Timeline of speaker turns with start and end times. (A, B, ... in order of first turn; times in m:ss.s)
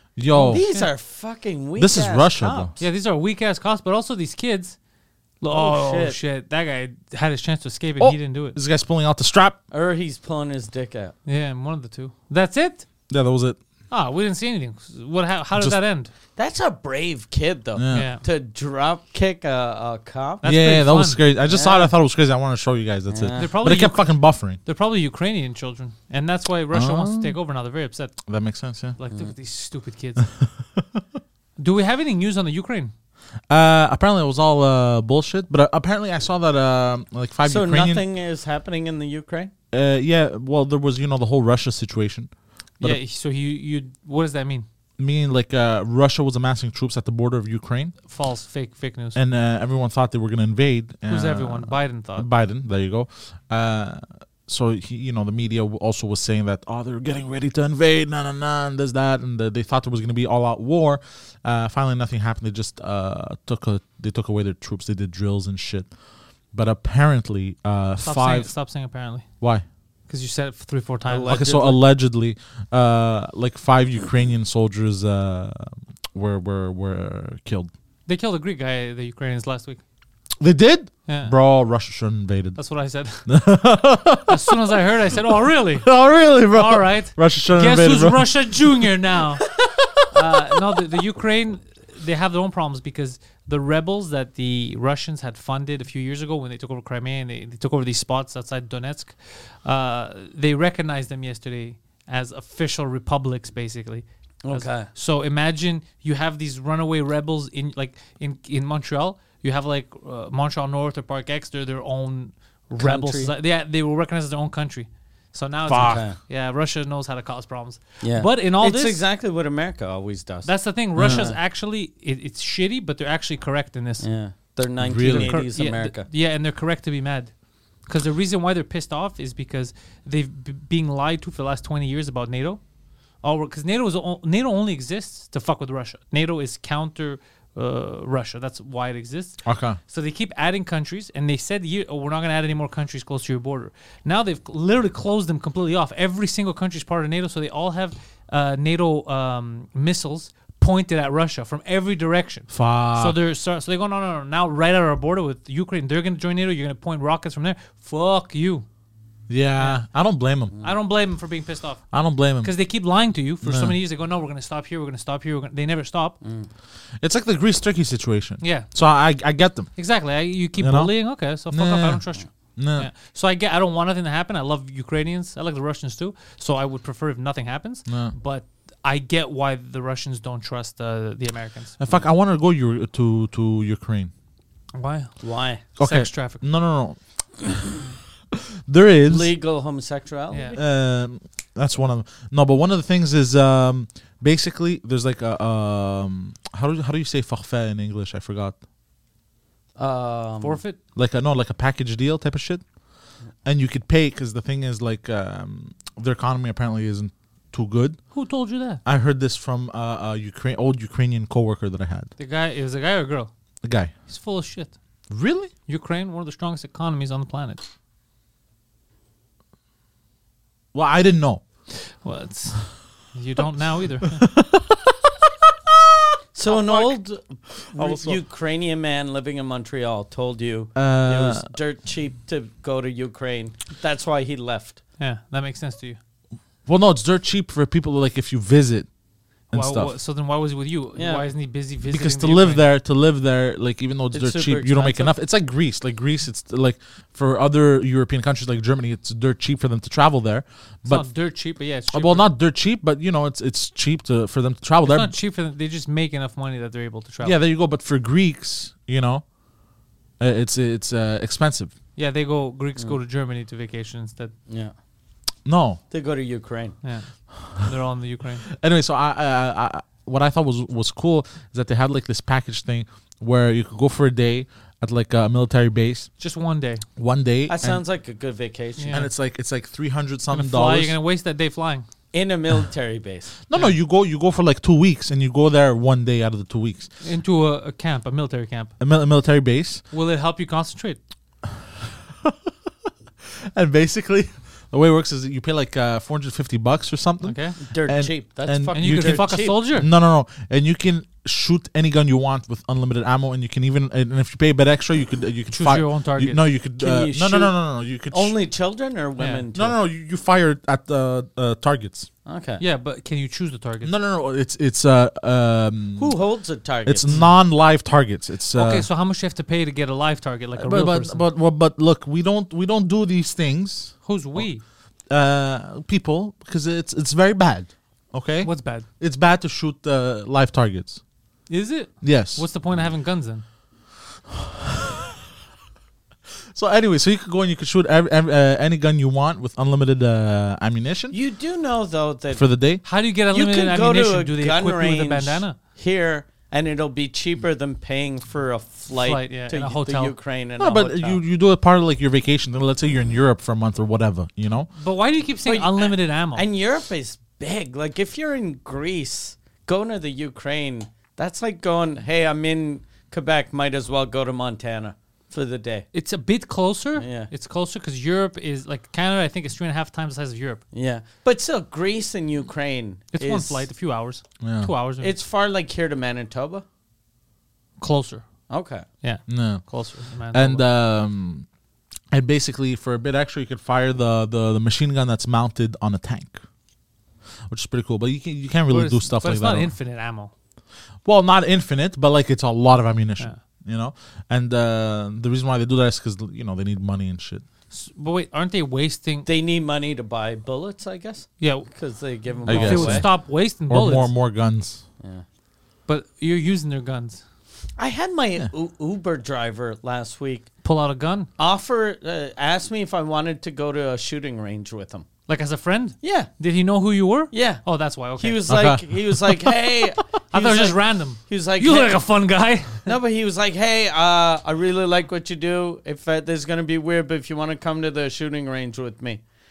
0:00.2-0:00.6 A
0:00.3-0:00.9 B
0:00.4-0:02.8 C
0:01.8-0:02.7 A
0:02.8-0:04.8 B
0:05.4-0:08.6 B
0:05.5-0:06.2 C
0:08.0-0:09.6 A
0:09.7-0:11.1 C
0:11.2-0:12.8 B
0:13.1-0:13.6 A
0:13.9-0:16.1 B
0:16.4-0:20.4 C
0:17.8-0:18.1 A
0:17.9-0:18.2 B
0:20.4-0:21.2 B
0:20.4-0:24.6 A
0:21.5-0:21.9 C
0:23.1-0:23.5 C
0:23.3-0:28.2 B
0:26.7-0:27.3 A
0:28.3-0:29.0 A
0:29.0-0:30.3 B
0:30.2-0:31.0 A
0:31.6-0:32.9 B
0:33.5-0:38.0 A
0:37.4-0:39.5 C
0:39.7-0:42.3 A
0:42.8-0:44.6 B
0:45.0-0:47.9 A
0:48.1-0:49.2 B
0:49.1-1:05.9 A
0:51.1-0:52.3 B
1:06.5-1:08.5 A
1:08.0-1:09.3 B
1:10.1-1:11.6 B
1:11.1-1:11.8 C
1:11.3-1:17.7 A
1:18.1-1:19.8 B
1:20.4-1:22.6 A
1:21.1-1:21.4 B
1:22.6-1:23.3 B
1:23.3-1:24.6 A
1:24.3-1:26.0 B
1:25.8-1:28.3 A
1:26.5-1:29.5 B
1:30.1-1:59.0 B
1:44.4-1:44.9 C
1:52.8-1:53.3 C
1:55.7-1:56.0 A
1:55.8-1:56.2 C
1:58.0-2:01.4 C
2:00.4-2:04.1 B
2:01.0-2:01.3 A
2:04.0-2:06.1 C
2:04.8-2:05.4 A
2:05.0-2:07.3 B
2:07.9-2:12.6 B
2:13.2-2:38.6 B
2:19.4-2:19.8 A
2:32.5-2:33.2 A
2:39.3-2:40.5 A
2:40.6-2:41.9 B
2:41.9-2:42.5 A
2:42.4-2:46.2 B
2:43.4-2:43.8 A
2:46.2-2:46.5 C
2:47.0-2:49.7 A
2:48.4-2:48.7 B
2:49.8-3:01.8 B
2:50.6-2:50.9 A
2:51.4-2:52.0 A
2:52.6-2:52.9 A
2:57.9-2:58.1 A
3:01.8-3:04.1 A
3:04.7-3:05.2 B
3:05.2-3:05.6 C
3:05.7-3:06.4 B
3:05.8-3:07.0 A
3:08.3-3:09.3 A
3:09.1-3:10.6 C
3:10.3-3:10.6 B
3:10.5-3:18.6 A
3:19.8-3:20.6 C
3:20.4-3:20.8 B
3:21.0-3:22.6 A
3:23.4-3:28.0 A
3:28.1-3:28.8 B
3:28.8-3:32.1 A
3:32.2-3:33.3 B
3:33.6-3:33.9 A
3:34.1-3:34.7 B
3:35.1-3:35.5 A
3:35.7-3:37.6 B
3:40.7-3:41.4 A
3:41.7-3:44.3 B
3:44.1-3:45.3 A
3:46.3-3:54.8 C
3:46.4-3:46.9 A
3:47.7-3:48.2 A
3:50.7-3:51.5 A
3:55.0-3:56.0 B
3:56.6-3:58.9 A
3:59.5-3:59.9 A
3:59.5-4:02.6 B
4:01.0-4:01.2 C
4:01.9-4:11.1 A
4:04.1-4:05.1 C
4:10.8-4:12.3 B
4:11.9-4:15.1 A
4:14.8-4:17.4 B
4:17.2-4:19.2 A
4:20.2-4:21.7 A
4:22.0-4:24.3 B
4:24.5-4:24.7 C
4:25.4-4:25.8 A
4:25.9-4:26.8 C
4:26.8-4:28.5 B
4:28.5-4:36.1 A
4:36.2-4:36.8 B
4:37.0-4:37.8 A
4:37.5-4:39.1 C
4:38.8-4:39.1 B
4:38.9-4:40.9 A
4:40.3-4:41.8 B
4:42.1-4:43.3 C
4:43.5-4:46.9 A
4:47.0-4:48.7 B
4:48.8-4:49.8 A
4:49.9-4:51.0 B
4:52.2-4:52.5 A
4:53.4-5:08.3 A
4:57.2-4:57.6 B
4:57.6-4:59.6 C
4:58.7-4:59.9 B
5:05.5-5:06.4 B
5:06.8-5:07.5 C
5:08.1-5:09.8 C
5:09.2-5:09.4 B
5:09.5-5:12.1 A
5:12.2-5:12.6 C
5:12.6-5:13.9 B
5:13.8-5:16.1 A
5:16.0-5:17.2 C
5:16.8-5:18.9 A
5:17.1-5:17.3 B
5:18.5-5:21.2 B
5:20.6-5:24.5 A
5:24.0-5:24.6 B
5:25.1-5:31.0 A
5:28.4-5:28.9 B
5:31.5-5:33.4 B
5:32.0-5:32.4 A
5:34.3-5:35.1 A
5:36.5-5:41.1 A
5:41.1-5:42.4 C
5:42.3-5:42.8 A
5:42.8-5:45.6 B
5:43.3-5:51.2 C
5:49.0-5:50.1 B
5:50.6-5:54.7 A
5:54.7-5:56.4 B
5:55.4-6:05.9 C
6:05.9-6:10.6 B
6:07.0-6:07.3 C
6:10.7-6:13.6 C
6:13.1-6:15.1 B
6:14.4-6:14.7 A
6:15.0-6:16.6 C
6:17.8-6:18.2 B
6:18.5-6:18.8 C
6:19.0-6:20.6 B
6:19.3-6:19.6 A
6:20.3-6:21.4 A
6:22.1-6:26.4 A
6:27.5-6:29.7 A
6:28.7-6:30.3 B
6:31.0-6:37.4 A
6:37.7-6:39.3 B
6:39.2-6:43.1 C
6:41.4-6:41.7 B
6:42.4-6:44.1 B
6:42.4-6:44.8 A
6:45.9-6:47.2 B
6:47.8-6:50.5 C
6:50.6-6:51.3 B
6:51.4-6:55.0 C
6:55.3-6:58.5 B
6:56.0-6:56.3 C
6:57.3-6:57.6 C
6:58.2-7:02.0 C
6:58.5-6:59.7 A
7:00.3-7:02.9 B
7:02.8-7:09.2 C